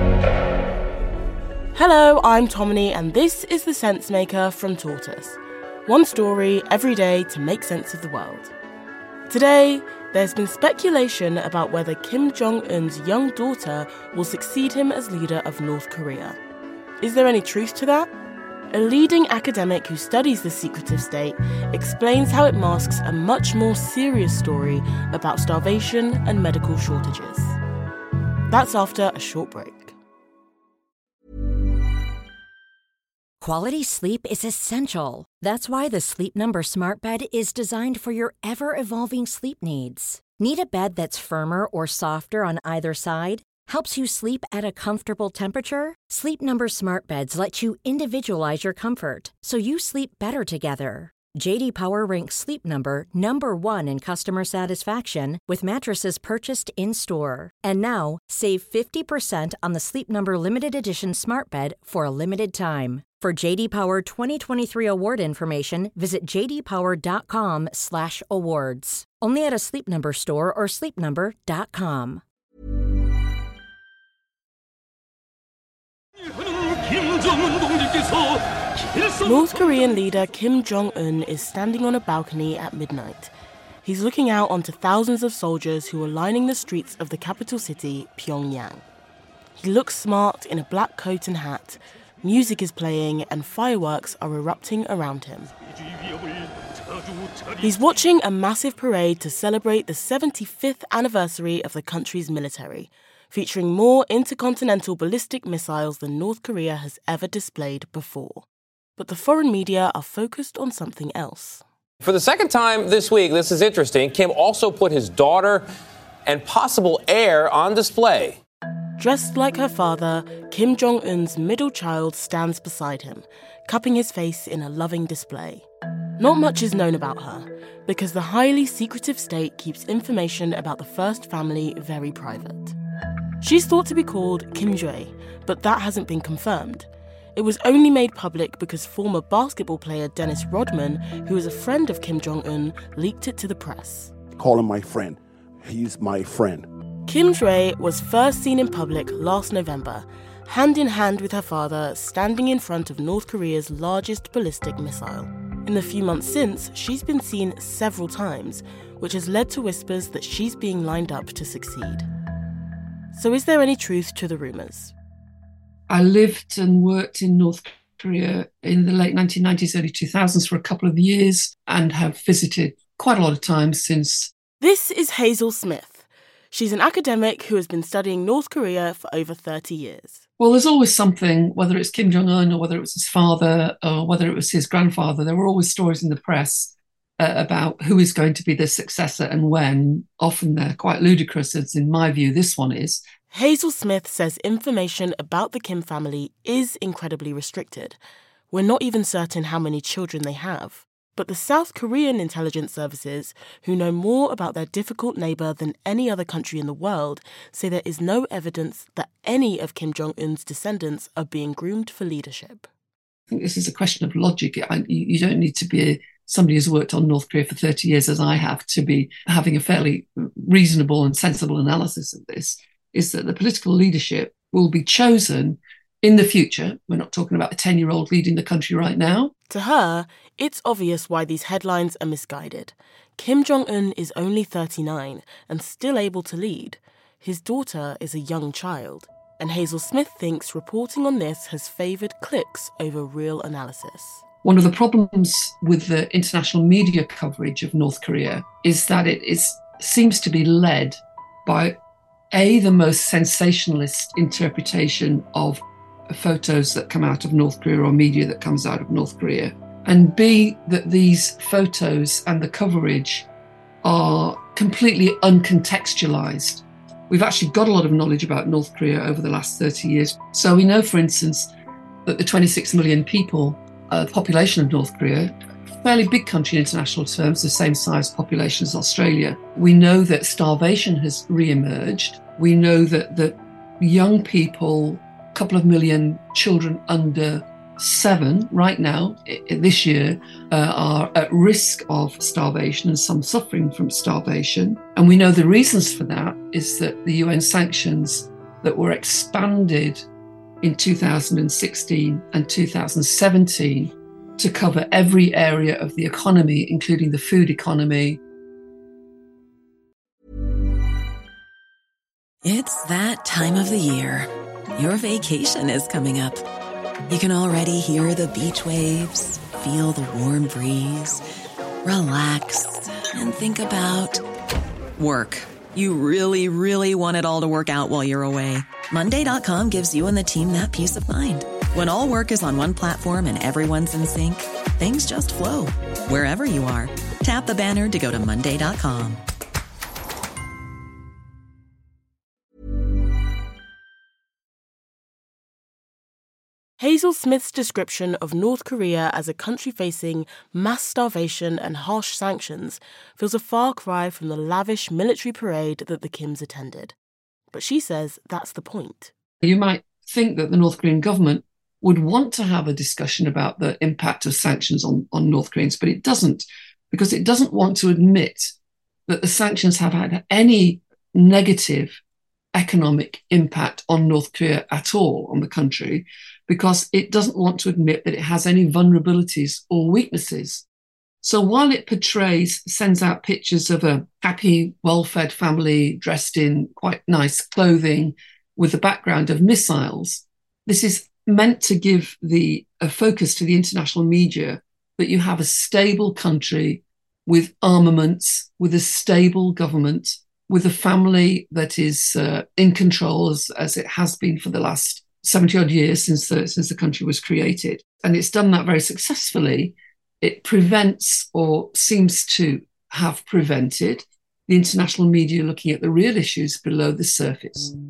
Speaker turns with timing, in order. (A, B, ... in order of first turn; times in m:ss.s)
0:01.7-0:08.5 A
0:09.3-0:16.4 A
0:17.0-0:18.1 A
0:18.7-0:27.6 A
0:28.5-0:30.0 A
0:33.4-1:12.2 B
1:19.2-1:23.3 A
1:23.8-1:28.8 A
1:29.6-1:35.5 A
1:37.6-1:48.5 A
1:49.0-1:51.6 A
1:52.1-1:55.6 C
1:56.3-1:58.3 C
1:59.0-2:05.7 A
2:06.2-2:12.8 A
2:13.4-2:24.1 A
2:24.4-2:26.7 D
2:27.1-2:42.1 A
2:43.1-2:44.9 A
2:45.9-2:54.3 E
2:54.6-3:00.2 A
3:00.4-3:13.0 E
3:13.3-3:18.0 A
3:18.5-3:32.7 A
3:33.3-3:49.3 E
3:49.5-4:04.2 A
4:04.4-4:11.8 E
4:12.3-4:23.3 E
4:23.8-4:31.5 E
4:32.1-5:00.0 E
5:00.6-5:08.2 E
5:12.4-5:16.4 F
5:17.1-5:21.2 F
5:21.8-5:24.2 F
5:25.0-5:39.2 F
5:46.8-5:57.0 A
5:57.5-5:59.1 A
5:59.4-6:08.5 E
6:09.1-6:12.0 E
6:12.5-6:20.6 E
6:21.2-6:57.7 E